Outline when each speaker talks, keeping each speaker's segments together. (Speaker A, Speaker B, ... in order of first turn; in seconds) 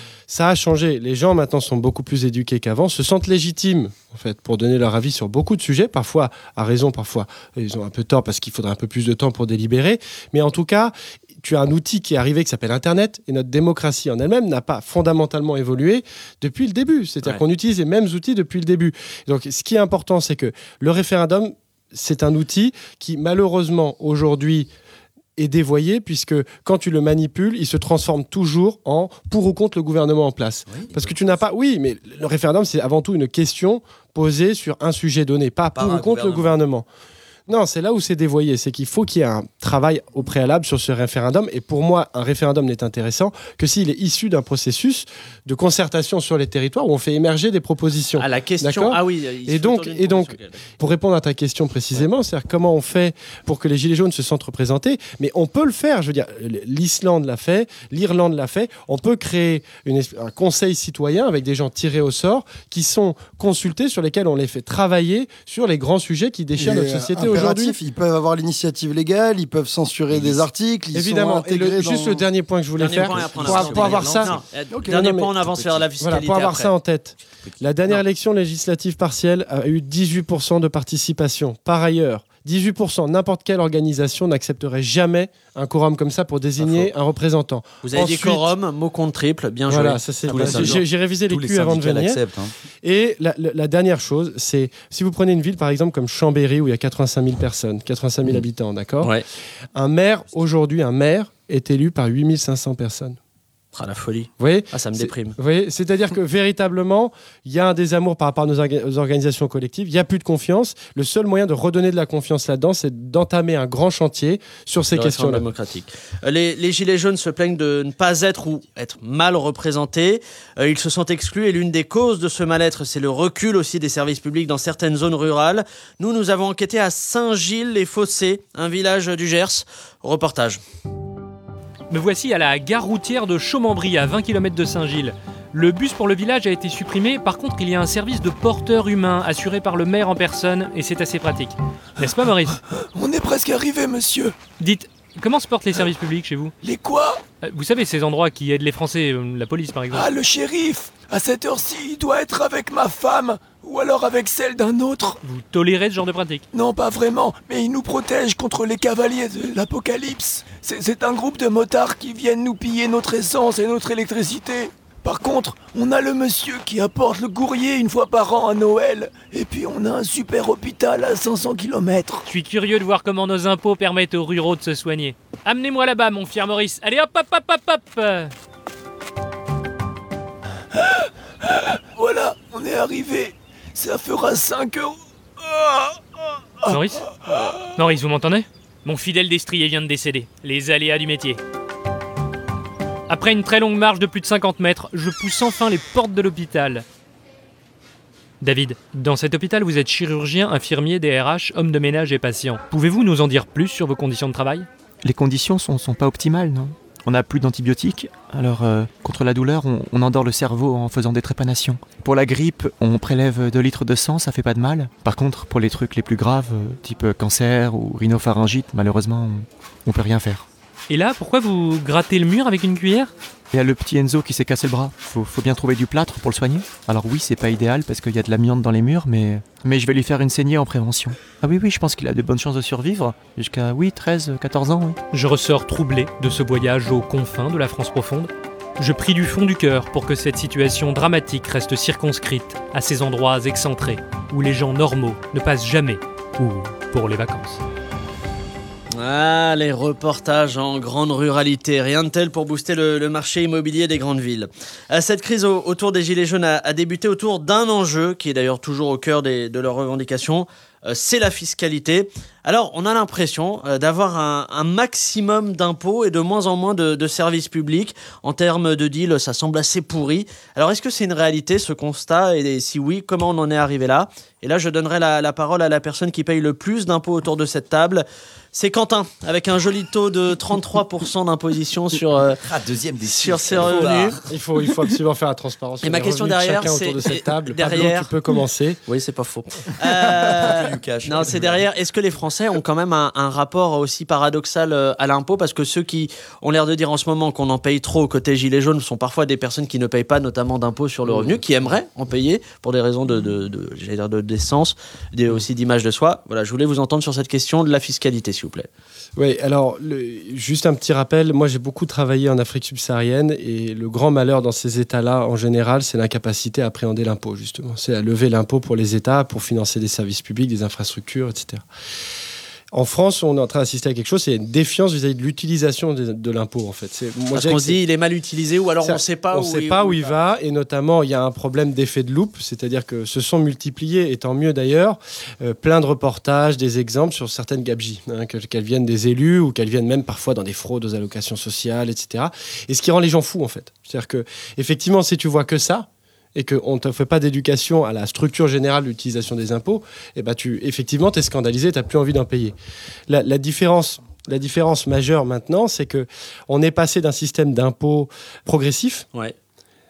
Speaker A: 0.3-24.7, 25.4-36.9, 37.5-67.8, 70.9-74.3, 74.9-75.4, 76.0-88.5, 89.7-92.2, 92.8-99.1, 99.8-103.2, 104.4-115.5, 283.6-288.8, 301.1-301.4, 309.2-321.6, 322.7-327.8, 328.8-352.5, 353.1-359.1
Speaker B: 30.7-31.3, 35.7-36.6, 70.1-70.4, 72.9-74.4, 75.5-75.8, 77.3-78.0, 86.6-86.9, 90.3-92.5, 282.4-284.8, 289.8-291.6
Speaker C: 48.2-50.6, 72.8-76.7, 87.8-90.8, 103.7-105.4, 114.9-130.6, 249.0-282.4, 283.1-284.2, 285.8-288.1, 288.9-308.7, 327.3-330.2
Speaker D: 66.6-72.2, 74.7-75.0
Speaker E: 131.9-142.6, 144.6-146.5, 147.4-150.1, 155.2-156.4, 172.3-178.3, 186.7-187.1, 187.8-191.4, 193.1-196.8, 198.4-204.7, 220.9-223.1, 235.1-247.6
Speaker F: 142.0-144.4, 146.6-147.2, 149.9-155.2, 156.5-172.3, 181.9-186.0
Speaker G: 205.0-220.5, 223.5-235.0